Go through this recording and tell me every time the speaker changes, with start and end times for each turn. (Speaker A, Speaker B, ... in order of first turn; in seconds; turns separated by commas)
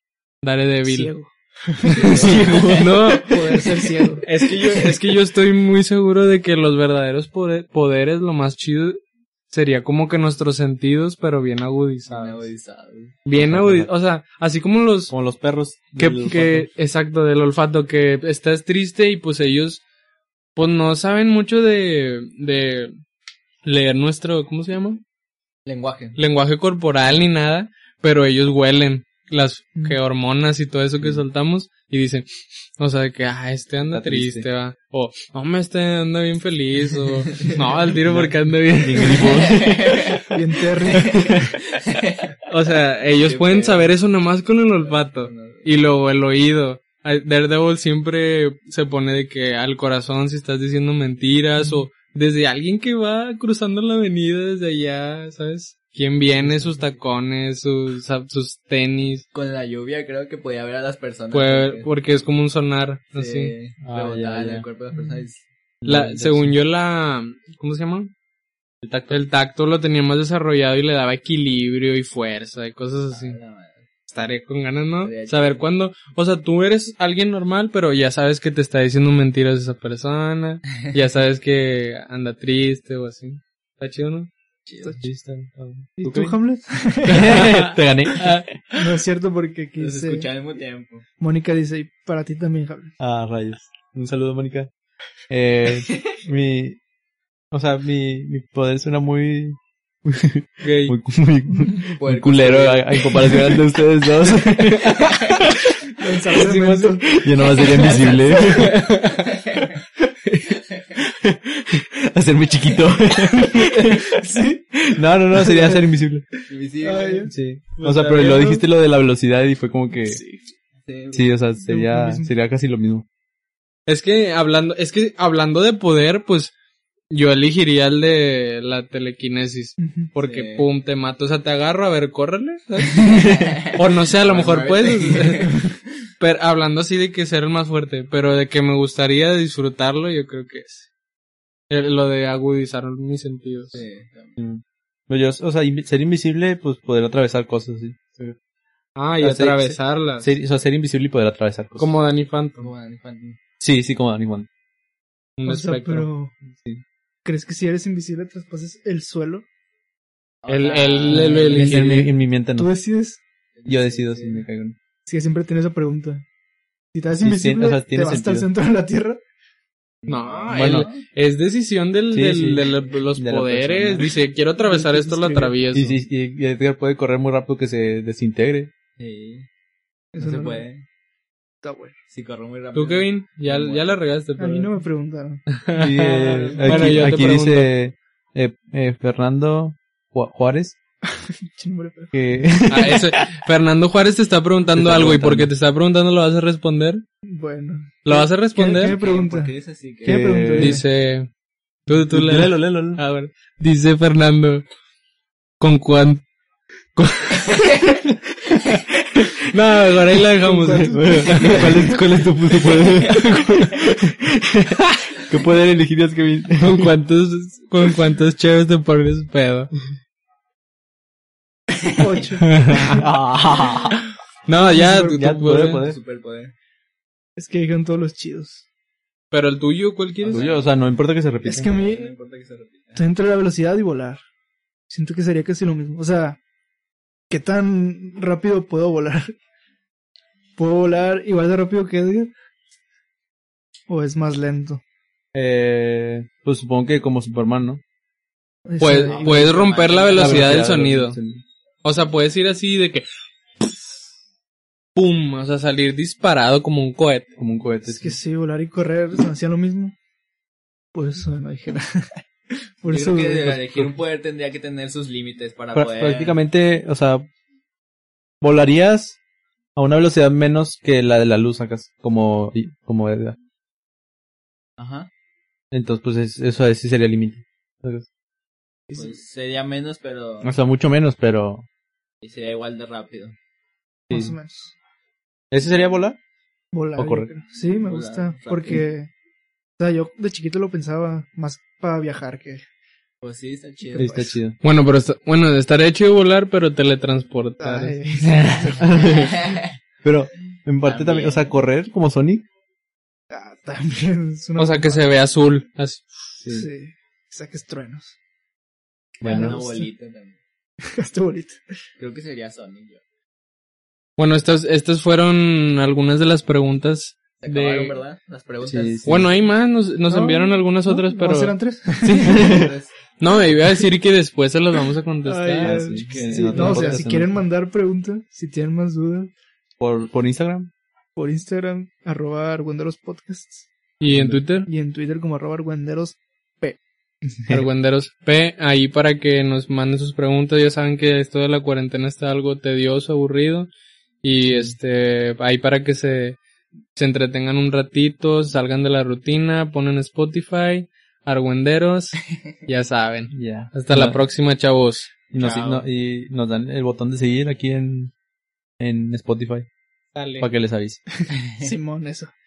Speaker A: 0.4-1.1, Speaker B: 0.8-2.3, Speaker A: 1.9-12.5, Speaker C: 1.9-2.9, Speaker D: 2.2-3.2, Speaker B: 3.1-4.3, Speaker C: 4.7-4.9, Speaker C: 12.1-13.2, Speaker A: 13.3-15.1, Speaker D: 13.3-13.9, Speaker D: 15.1-16.7, Speaker A: 16.0-19.8, Speaker A: 20.6-22.9, Speaker A: 23.6-25.0, Speaker C: 25.7-26.2, Speaker A: 26.2-39.5, Speaker D: 33.9-34.5, Speaker D: 38.0-40.2, Speaker C: 39.0-40.2, Speaker B: 40.3-41.3, Speaker C: 40.9-42.4, Speaker D: 41.1-41.5, Speaker A: 42.5-59.2, Speaker C: 43.2-43.9, Speaker C: 44.8-45.7, Speaker B: 51.6-51.9, Speaker D: 56.4-56.8, Speaker C: 59.3-61.9, Speaker A: 61.3-63.5, Speaker C: 63.1-65.5, Speaker D: 63.8-64.7, Speaker D: 65.8-66.6, Speaker A: 65.9-68.1, Speaker D: 68.8-69.2, Speaker A: 69.1-73.4, Speaker C: 73.1-73.8, Speaker A: 74.1-84.3, Speaker C: 75.0-75.6, Speaker C: 84.7-85.0, Speaker B: 84.8-85.1, Speaker D: 85.0-86.4, Speaker B: 86.0-87.5, Speaker D: 87.1-88.4, Speaker A: 87.1-88.7, Speaker B: 88.7-90.3, Speaker C: 89.8-91.0, Speaker B: 91.2-92.9, Speaker D: 93.0-94.7, Speaker D: 95.3-96.8, Speaker D: 97.5-105.3, Speaker A: 100.6-101.0, Speaker C: 102.0-103.6, Speaker A: 104.7-105.4, Speaker B: 106.0-107.6, Speaker A: 106.3-109.6, Speaker D: 107.1-108.9, Speaker C: 107.6-108.8, Speaker C: 109.3-109.7, Speaker A: 110.3-110.6, Speaker D: 111.0-114.2, Speaker B: 113.9-114.8, Speaker D: 114.8-116.3, Speaker B: 115.3-115.9, Speaker C: 116.5-117.3, Speaker B: 116.8-117.3, Speaker D: 117.3-120.2, Speaker A: 117.8-118.6, Speaker B: 120.1-120.4, Speaker C: 120.8-121.4, Speaker D: 121.1-123.1, Speaker B: 121.6-122.3, Speaker A: 123.9-126.5, Speaker A: 127.1-135.6, Speaker B: 129.8-130.1, Speaker C: 130.2-130.7, Speaker C: 132.9-135.8, Speaker A: 136.2-140.9, Speaker A: 141.7-143.8, Speaker C: 143.7-144.4, Speaker D: 144.4-148.4, Speaker A: 149.0-150.3, Speaker D: 149.2-151.9, Speaker A: 151.8-152.7, Speaker C: 152.6-153.4, Speaker D: 153.6-154.5, Speaker A: 155.4-156.1, Speaker B: 155.4-156.3, Speaker D: 156.5-156.8, Speaker B: 157.2-159.5, Speaker C: 160.4-162.0, Speaker A: 160.5-162.1, Speaker D: 161.1-162.7, Speaker B: 162.6-163.2, Speaker C: 163.6-164.5, Speaker D: 163.7-164.8, Speaker B: 165.1-166.2, Speaker B: 166.9-169.2, Speaker D: 167.2-168.5, Speaker C: 170.0-171.0, Speaker A: 170.1-176.0, Speaker D: 170.5-170.9, Speaker D: 172.1-174.1, Speaker B: 174.6-175.6, Speaker D: 175.7-178.7, Speaker C: 179.0-179.5, Speaker B: 180.1-180.7, Speaker C: 180.2-180.8, Speaker B: 181.6-181.9, Speaker C: 182.1-184.0, Speaker A: 182.7-184.8, Speaker B: 184.4-185.4, Speaker A: 185.5-187.7, Speaker D: 185.8-190.8, Speaker C: 186.2-187.1, Speaker B: 191.1-192.7, Speaker D: 192.1-193.1, Speaker A: 192.7-197.0, Speaker D: 194.7-195.5, Speaker B: 197.3-200.8, Speaker A: 198.1-199.0, Speaker C: 198.9-200.2, Speaker D: 200.1-200.8, Speaker A: 200.6-201.3, Speaker A: 201.9-204.7, Speaker D: 201.9-203.0, Speaker A: 205.6-206.2, Speaker A: 207.0-207.9, Speaker A: 209.2-211.9, Speaker B: 210.4-212.0, Speaker D: 210.7-216.9, Speaker A: 213.0-213.8, Speaker A: 216.6-219.7, Speaker B: 221.9-222.7, Speaker A: 222.5-223.0, Speaker D: 222.8-224.0, Speaker A: 224.5-225.8, Speaker B: 224.6-225.1, Speaker D: 224.8-226.0, Speaker C: 225.8-226.6, Speaker B: 227.4-228.7, Speaker A: 229.3-230.4, Speaker C: 230.2-230.7, Speaker D: 230.3-231.7, Speaker B: 231.5-232.2, Speaker C: 231.5-233.0, Speaker B: 232.9-234.2, Speaker B: 234.9-236.4, Speaker B: 237.3-239.3, Speaker B: 240.6-242.3, Speaker B: 243.9-244.8, Speaker D: 245.3-247.8, Speaker B: 248.7-249.9, Speaker A: 248.8-251.2, Speaker C: 248.9-250.7, Speaker D: 250.1-251.4, Speaker A: 251.8-253.1, Speaker A: 253.6-253.9, Speaker A: 254.9-257.4, Speaker D: 257.4-258.2, Speaker B: 257.8-260.0, Speaker B: 260.9-263.9, Speaker C: 262.9-266.4, Speaker D: 265.7-267.3, Speaker D: 268.4-269.2, Speaker D: 269.8-273.4, Speaker C: 274.8-275.1, Speaker D: 275.7-278.1, Speaker B: 278.9-279.2, Speaker C: 278.9-280.5, Speaker D: 280.4-281.7, Speaker C: 282.2-283.4, Speaker D: 284.1-284.4, Speaker B: 284.1-284.8, Speaker D: 285.5-286.2, Speaker B: 286.7-289.1, Speaker D: 287.0-287.3, Speaker C: 287.8-288.8, Speaker B: 289.8-292.6, Speaker C: 293.2-294.3, Speaker B: 293.9-294.3, Speaker D: 294.0-294.6, Speaker A: 294.6-298.8, Speaker B: 297.6-299.1, Speaker D: 298.8-302.4, Speaker C: 299.1-299.7, Speaker C: 300.8-301.6, Speaker B: 303.3-305.0, Speaker A: 304.6-306.3, Speaker D: 306.4-306.7, Speaker B: 306.5-308.2, Speaker B: 309.2-309.9, Speaker D: 309.2-309.6, Speaker C: 309.2-310.4, Speaker B: 310.8-311.6, Speaker C: 312.0-313.0, Speaker A: 314.2-318.0, Speaker C: 317.4-319.2, Speaker D: 318.6-319.3, Speaker A: 319.1-322.6, Speaker B: 320.1-322.6, Speaker C: 322.3-322.9, Speaker D: 322.3-322.7, Speaker A: 323.2-326.9, Speaker B: 325.2-329.3, Speaker D: 325.6-327.4, Speaker D: 329.8-330.7, Speaker B: 331.2-333.7, Speaker A: 334.0-334.7, Speaker D: 334.1-334.4, Speaker B: 334.6-336.8, Speaker A: 337.5-343.7, Speaker A: 344.2-346.4, Speaker D: 344.5-344.8, Speaker A: 346.9-355.1, Speaker D: 353.3-354.2, Speaker D: 355.3-358.1, Speaker C: 355.4-355.8, Speaker D: 358.8-359.7, Speaker A: 360.1-360.5, Speaker D: 360.4-361.0, Speaker C: 361.4-361.7, Speaker B: 361.5-362.3